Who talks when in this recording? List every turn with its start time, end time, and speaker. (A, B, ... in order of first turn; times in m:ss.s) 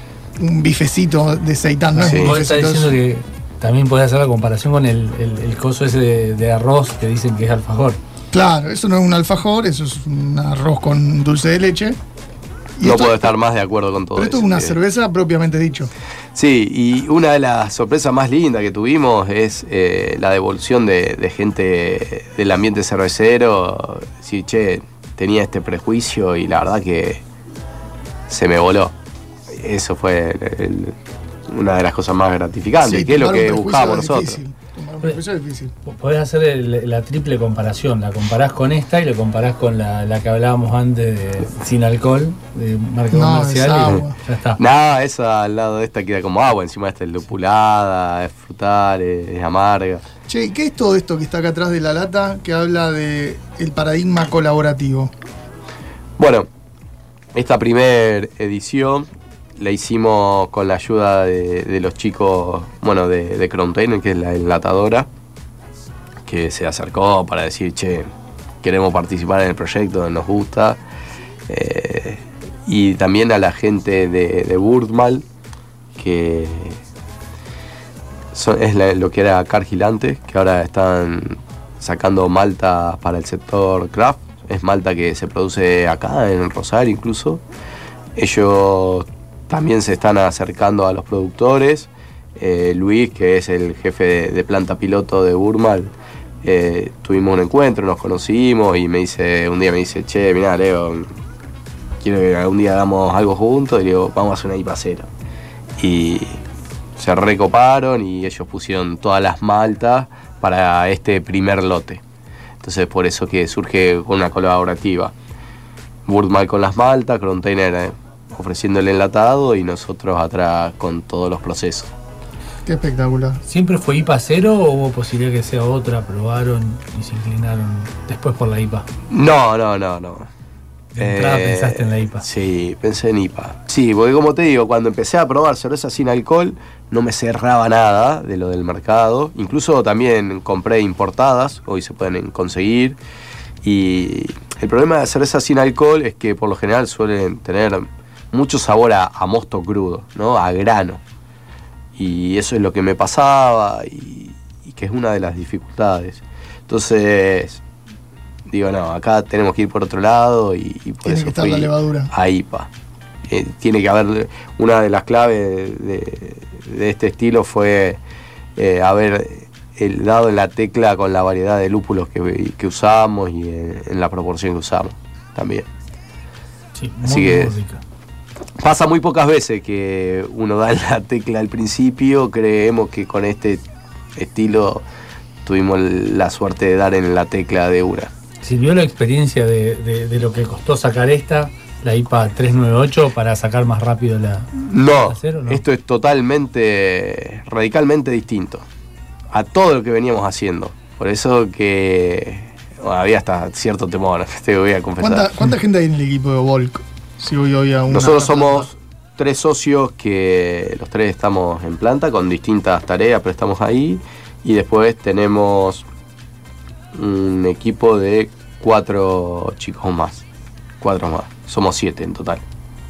0:00.4-0:03.0 A
0:02.0-0:08.0 B
0:02.0-0:02.4 C
0:08.3-0:12.0 A
0:12.8-0:13.3 A
0:12.8-0:14.8 C
0:14.2-0:15.9 A
0:16.4-0:27.2 C
0:28.3-0:28.9 C
0:29.5-0:30.9 C
0:31.5-0:34.4 C
0:32.8-0:35.7 A
0:35.8-0:44.6 B
0:43.1-0:44.2 A
0:44.6-0:50.0 C
0:50.3-0:55.1 A
0:56.2-0:56.5 C
0:57.3-1:05.1 C
1:06.3-1:08.1 C
1:08.6-1:10.8 C
1:11.5-1:15.2 C
1:16.0-1:16.8 C
1:18.3-1:27.4 C
1:28.2-1:35.9 C
1:36.4-1:41.1 C
1:42.0-1:45.1 C
1:45.8-1:46.4 C
1:47.0-1:52.0 C
1:52.6-1:55.1 C
1:56.1-2:01.9 C
2:02.6-2:03.4 A
2:03.5-2:08.9 B
2:09.1-2:10.3 C
2:11.0-2:12.3 B
2:11.0-2:23.0 C
2:23.6-2:31.0 C
2:32.0-2:37.6 C
2:38.5-2:42.7 C
2:41.0-2:42.1 A
2:43.3-2:48.0 C
2:48.6-2:55.6 C
2:56.8-2:57.8 B
2:57.0-2:57.6 C
2:58.6-3:03.6 C
3:04.2-3:04.8 C
3:05.5-3:08.1 C
3:08.4-3:14.5 B
3:14.6-3:18.6 C
3:15.1-3:15.6 B
3:19.3-3:25.3 C
3:25.0-3:28.7 A
3:27.9-3:35.9 C
3:36.9-3:40.2 C
3:40.8-3:42.4 C